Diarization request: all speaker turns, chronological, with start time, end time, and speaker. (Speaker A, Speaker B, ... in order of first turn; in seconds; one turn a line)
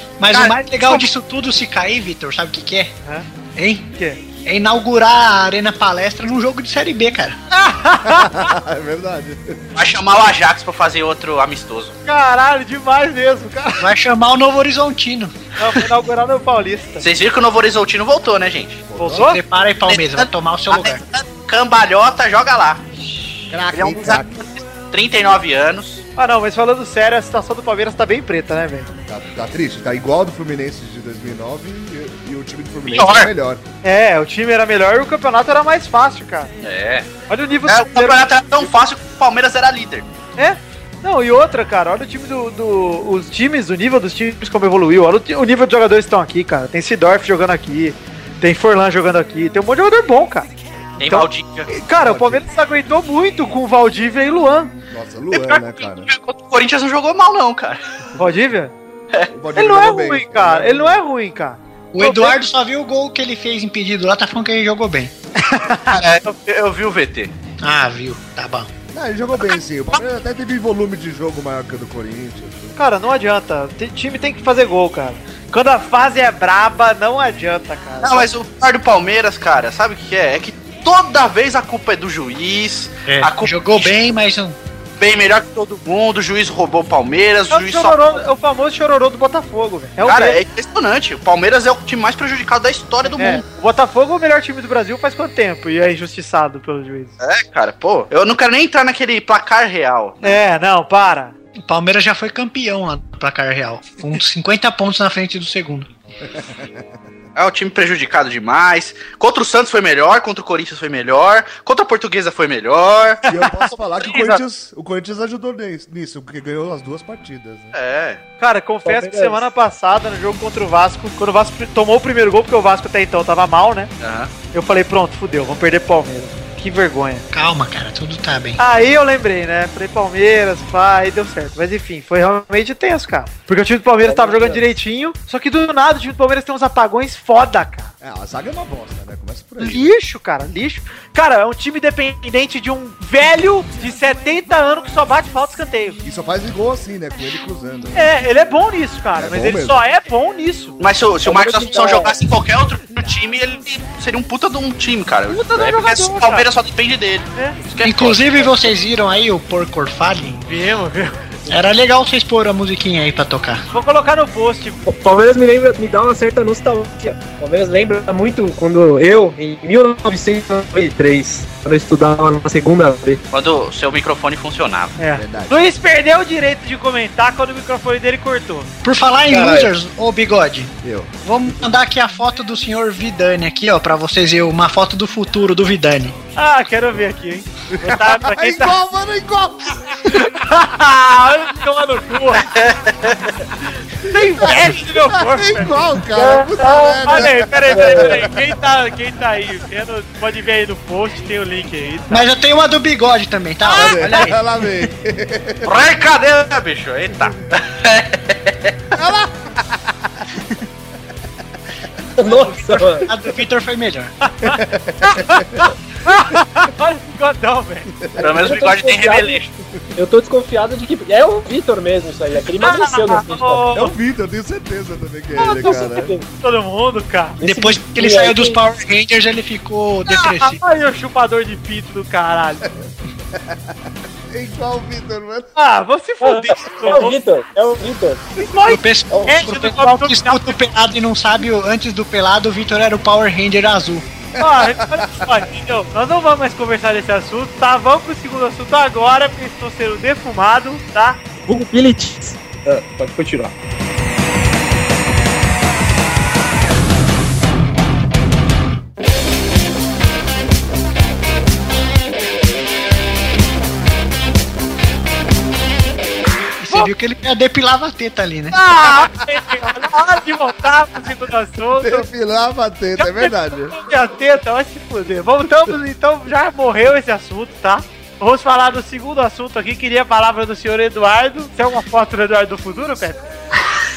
Speaker A: 0.2-2.9
Speaker B: 0.3-0.5
Speaker A: 3.5-7.3
Speaker C: 4.0-4.2
Speaker C: 7.5-8.5
Speaker D: 8.0-9.6
Speaker B: 9.8-11.9
Speaker C: 12.1-13.9
Speaker A: 13.8-15.3
Speaker C: 15.6-17.1
Speaker B: 17.0-18.8
Speaker D: 18.9-19.3
Speaker C: 19.0-19.4
Speaker A: 19.1-21.0
Speaker B: 19.9-22.8
Speaker D: 23.5-24.4
Speaker B: 23.7-26.0
Speaker C: 26.1-28.9
Speaker D: 29.1-33.6
Speaker B: 32.9-33.3
Speaker C: 33.8-36.5
Speaker B: 36.6-37.1
Speaker C: 37.3-38.2
Speaker B: 37.6-40.0
Speaker C: 40.4-50.5
Speaker B: 51.0-51.7
Speaker C: 51.0-54.7
Speaker D: 51.8-52.4
Speaker D: 54.9-56.1
Speaker B: 55.3-57.8
Speaker C: 58.2-58.7
Speaker D: 59.3-61.0
Speaker C: 59.5-62.4
Speaker A: 61.9-65.1
Speaker B: 65.9-67.3
Speaker A: 67.6-68.7
Speaker D: 68.9-72.8
Speaker C: 72.8-78.3
Speaker B: 78.0-84.0
Speaker A: 83.1-84.6
Speaker B: 85.0-88.2
Speaker C: 87.5-90.4
Speaker B: 90.0-93.4
Speaker C: 93.2-97.1
Speaker B: 97.2-100.4
Speaker C: 100.2-101.3
Speaker A: 101.6-105.9
Speaker D: 106.3-106.8
Speaker B: 107.3-113.2
Speaker D: 113.3-117.7
Speaker B: 114.0-114.4
Speaker B: 117.7-118.2
Speaker C: 118.4-123.9
Speaker E: 118.8-119.4
Speaker B: 124.0-124.3
Speaker C: 124.5-127.2
Speaker A: 127.3-128.6
Speaker C: 128.6-137.9
Speaker E: 134.0-134.6
Speaker D: 138.0-139.9
Speaker C: 139.6-146.0
Speaker D: 146.0-148.1
Speaker C: 147.9-150.8
Speaker D: 149.2-149.8
Speaker B: 150.8-158.7
Speaker E: 151.2-152.2
Speaker C: 155.3-156.4
Speaker A: 157.8-160.4
Speaker C: 160.4-161.4
Speaker A: 161.5-163.6
Speaker C: 163.7-164.8
Speaker E: 164.8-173.2
Speaker B: 173.3-174.9
Speaker C: 175.0-178.7
Speaker D: 175.1-175.7
Speaker A: 178.8-180.7
Speaker E: 179.3-179.7
Speaker D: 180.8-181.2
Speaker A: 181.2-186.2
Speaker C: 186.3-188.8
Speaker D: 187.7-190.0
Speaker C: 190.0-192.5
Speaker B: 192.5-193.3
Speaker C: 194.0-202.3
Speaker D: 194.1-198.3
Speaker E: 196.2-198.2
Speaker A: 202.1-204.4
Speaker C: 203.6-204.1
Speaker D: 203.7-205.8
Speaker B: 205.6-208.7
Speaker D: 208.9-210.1
Speaker E: 212.2-213.1
Speaker A: 212.4-214.1
Speaker C: 214.3-217.9
Speaker D: 214.4-215.6
Speaker D: 218.0-218.3
Speaker B: 218.2-219.5
Speaker E: 218.2-219.4
Speaker E: 219.9-223.7
Speaker C: 222.6-223.9
Speaker D: 223.7-226.1
Speaker E: 225.4-226.2
Speaker C: 225.4-227.4
Speaker E: 227.4-228.6
Speaker A: 227.4-230.6
Speaker C: 230.1-232.7
Speaker D: 232.8-233.8
Speaker D: 234.3-235.5
Speaker C: 235.6-237.2
Speaker E: 236.2-238.3
Speaker C: 238.4-240.6
Speaker A: 238.6-244.1
Speaker E: 239.1-239.4
Speaker D: 244.3-245.4
Speaker C: 244.4-251.2
Speaker E: 251.4-253.5
Speaker A: 266.6-268.6
Speaker C: 268.5-272.1
Speaker D: 271.8-273.8
Speaker C: 273.0-283.3